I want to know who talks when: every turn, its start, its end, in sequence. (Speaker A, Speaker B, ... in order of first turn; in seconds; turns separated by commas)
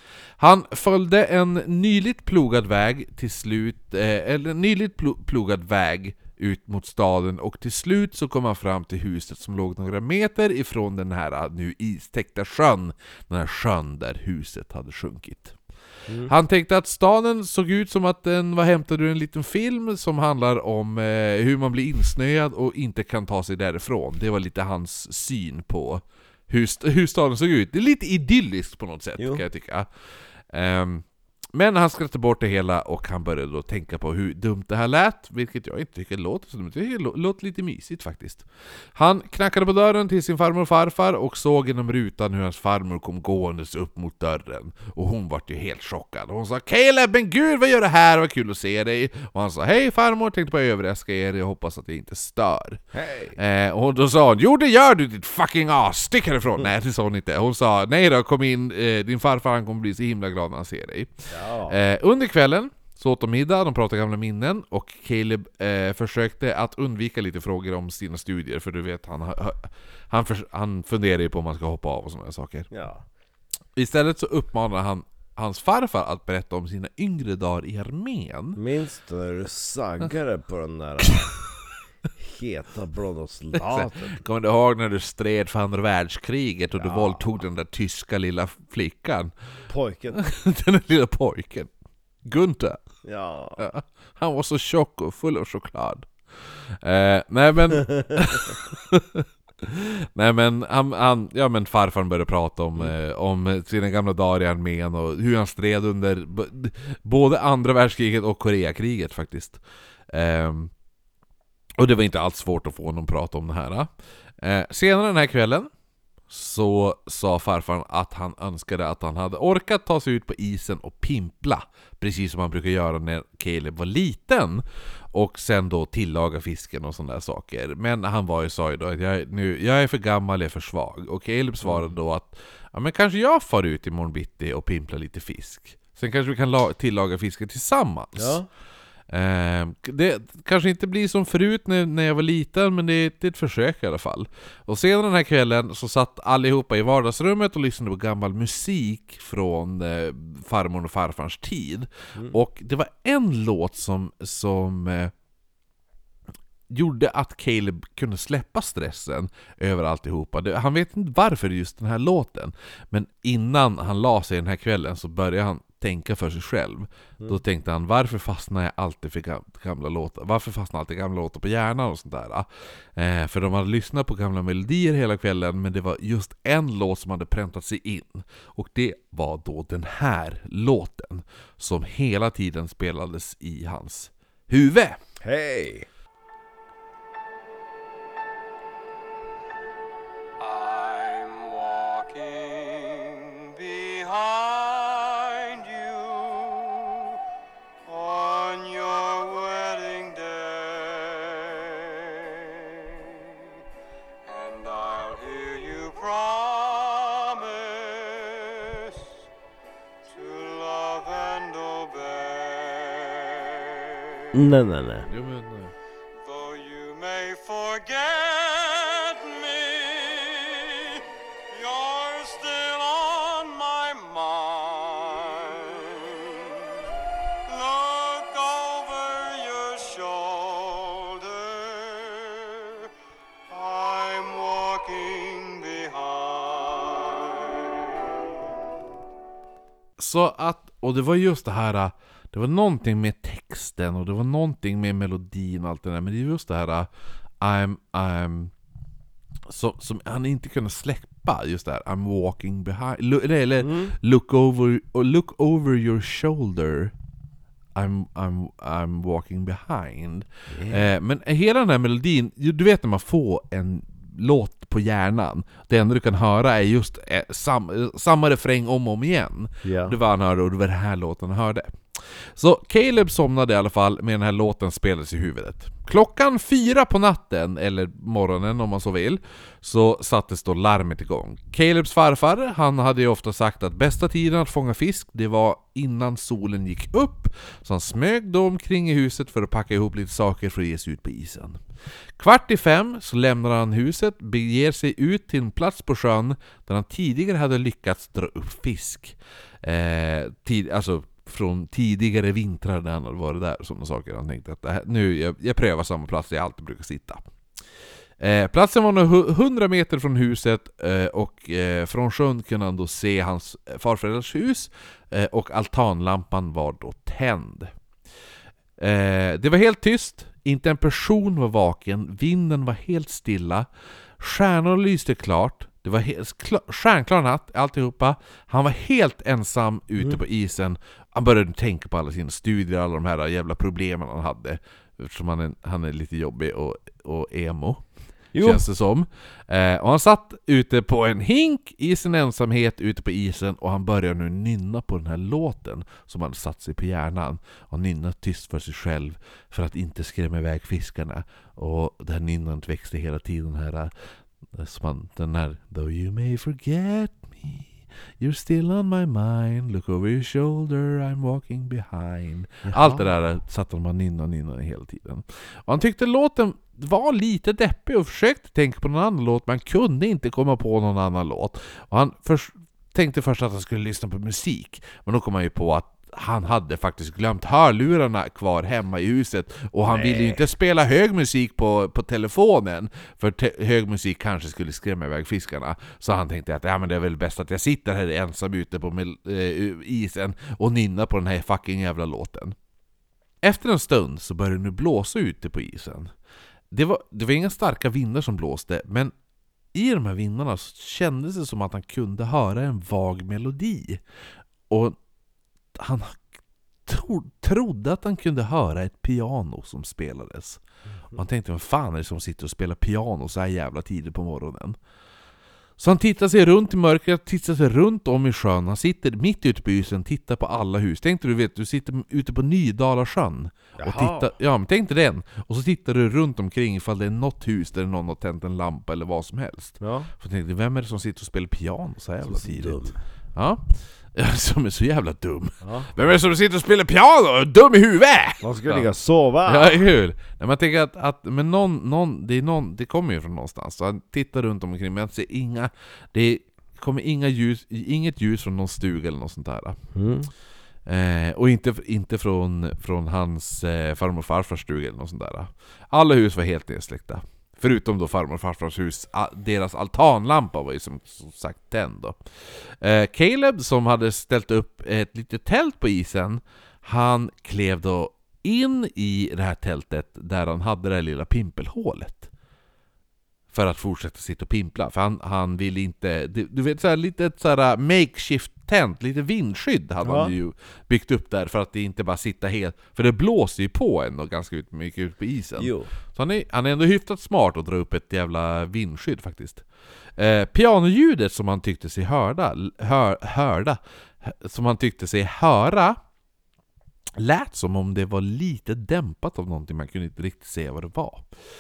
Speaker A: 0.4-15.6, Speaker A: 16.2-29.9, Speaker B: 29.2-29.4, Speaker A: 30.5-52.8, Speaker B: 52.9-53.4, Speaker A: 53.4-72.7, Speaker B: 61.3-61.8, Speaker B: 72.7-73.0, Speaker A: 73.8-78.6, Speaker B: 78.6-81.3, Speaker B: 82.2-84.2, Speaker A: 83.5-89.3, Speaker B: 86.8-87.2, Speaker B: 89.7-90.2, Speaker A: 90.1-91.7, Speaker A: 92.2-92.8, Speaker B: 93.0-93.6, Speaker A: 93.6-110.7, Speaker A: 111.8-115.7, Speaker A: 116.3-138.4, Speaker B: 138.2-138.5, Speaker A: 139.1-155.1, Speaker A: 156.7-185.0, Speaker B: 185.2-185.9, Speaker C: 190.4-197.2, Speaker C: 197.9-203.4, Speaker C: 204.2-209.1, Speaker C: 210.0-214.3, Speaker B: 214.3-215.1, Speaker A: 215.1-215.8, Speaker C: 216.2-226.7, Speaker C: 227.5-232.9, Speaker C: 233.5-238.3, Speaker A: 240.0-246.9, Speaker A: 247.4-248.5, Speaker A: 249.5-256.9, Speaker B: 253.6-253.9, Speaker A: 257.8-291.6, Speaker B: 260.5-260.9, Speaker B: 269.6-270.0, Speaker A: 292.2-307.2, Speaker A: 308.2-317.7, Speaker A: 318.8-323.7, Speaker A: 324.2-337.8, Speaker B: 338.3-338.6, Speaker A: 338.4-392.6, Speaker B: 362.6-363.1, Speaker B: 379.9-380.4, Speaker A: 393.4-396.1, Speaker A: 396.7-399.1, Speaker A: 399.7-404.0, Speaker A: 404.7-405.0, Speaker A: 405.8-406.3, Speaker A: 406.9-410.6, Speaker A: 411.1-414.8, Speaker A: 415.8-438.9, Speaker B: 423.8-424.3, Speaker B: 429.8-430.1, Speaker B: 432.2-433.0, Speaker B: 435.6-435.9, Speaker B: 438.4-439.8, Speaker A: 439.4-449.8, Speaker B: 449.9-450.3, Speaker A: 450.9-472.3, Speaker A: 473.5-489.6, Speaker B: 480.0-480.4, Speaker B: 485.6-485.9, Speaker A: 490.2-496.0, Speaker A: 497.2-501.3